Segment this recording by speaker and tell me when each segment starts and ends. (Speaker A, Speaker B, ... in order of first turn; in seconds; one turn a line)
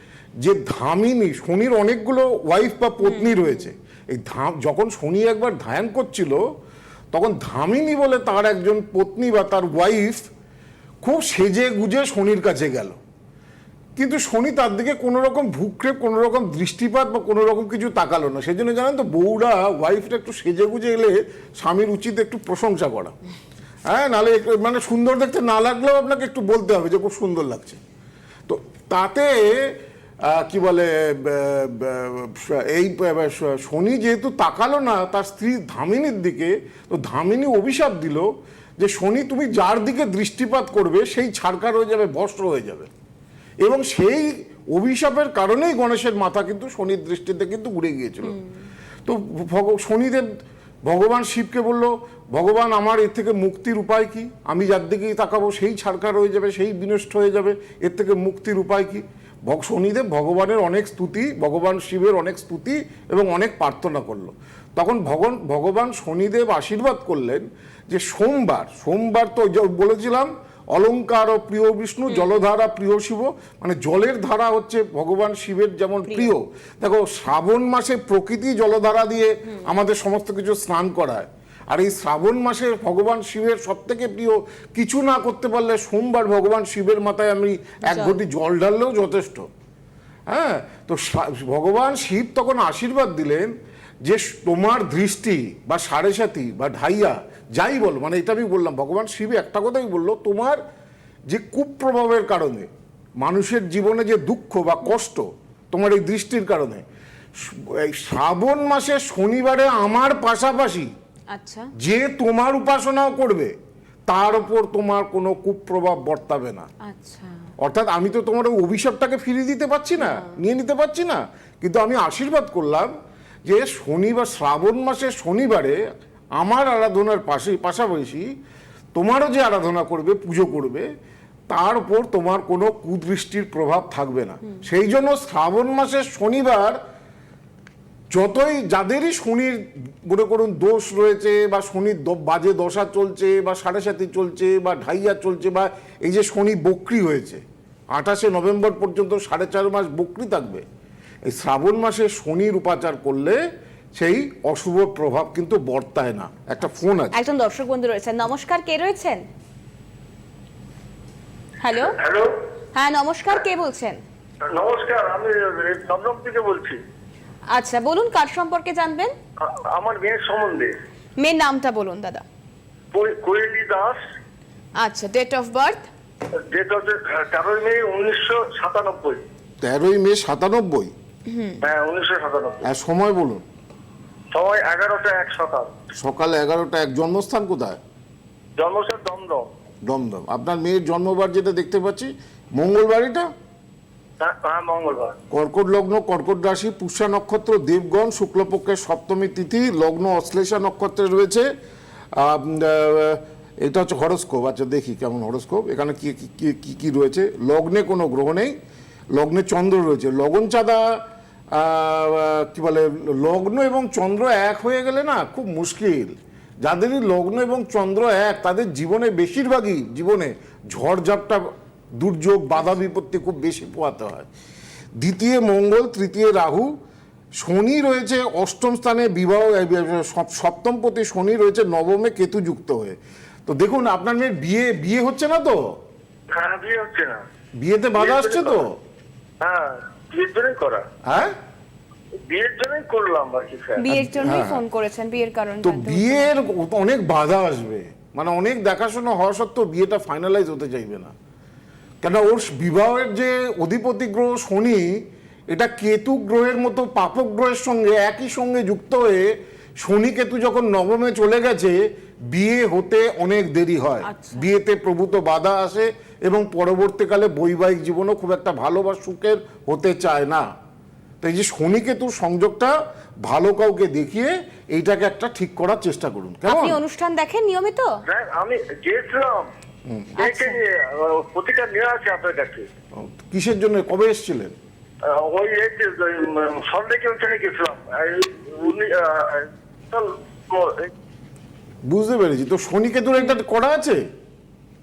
Speaker A: 0.4-6.4
Speaker B: 3.0-3.6
Speaker A: 7.1-10.3
Speaker A: 11.0-13.0
Speaker A: 14.0-23.2
Speaker A: 23.9-27.8
Speaker A: 28.5-42.9
Speaker A: 43.6-48.4
Speaker A: 49.0-50.3
Speaker A: 50.9-89.5
Speaker B: 76.1-76.3
Speaker B: 87.8-88.2
Speaker A: 90.3-100.6
Speaker A: 101.3-102.7
Speaker A: 103.2-106.8
Speaker A: 107.4-110.9
Speaker B: 111.3-111.7
Speaker A: 111.8-113.5
Speaker A: 114.1-116.7
Speaker B: 116.8-117.5
Speaker A: 117.6-122.9
Speaker B: 120.0-120.4
Speaker A: 123.5-125.8
Speaker A: 126.4-128.3
Speaker A: 128.9-130.9
Speaker A: 131.5-136.8
Speaker A: 138.1-150.7
Speaker A: 151.3-153.4
Speaker A: 153.9-157.2
Speaker B: 157.1-159.2
Speaker B: 161.6-162.0
Speaker C: 161.9-162.4
Speaker B: 162.7-164.0
Speaker C: 164.4-166.8
Speaker B: 167.5-169.2
Speaker C: 169.4-170.8
Speaker B: 171.2-172.2
Speaker C: 172.9-174.0
Speaker B: 174.8-175.9
Speaker C: 176.5-179.2
Speaker A: 179.6-180.9
Speaker B: 181.3-181.6
Speaker C: 181.6-182.7
Speaker A: 182.6-183.4
Speaker C: 184.3-185.8
Speaker A: 186.0-187.8
Speaker C: 188.6-189.5
Speaker A: 189.9-193.3
Speaker C: 194.2-195.2
Speaker A: 195.3-201.5
Speaker A: 202.2-208.6
Speaker A: 209.1-224.3
Speaker A: 225.0-226.7
Speaker A: 227.4-235.7
Speaker C: 236.3-237.2
Speaker A: 237.6-238.7
Speaker C: 238.0-238.7
Speaker C: 239.4-240.8
Speaker A: 241.1-241.3
Speaker C: 242.2-243.9
Speaker B: 243.8-246.3
Speaker A: 243.9-244.6
Speaker A: 245.6-251.1
Speaker A: 252.0-255.0
Speaker A: 255.5-270.5
Speaker B: 264.0-264.5
Speaker A: 271.2-276.8
Speaker B: 276.5-278.0
Speaker C: 278.1-279.5
Speaker A: 279.9-280.1
Speaker B: 280.2-280.6
Speaker C: 280.2-282.6
Speaker A: 283.0-284.6
Speaker C: 285.0-290.9
Speaker A: 291.9-294.0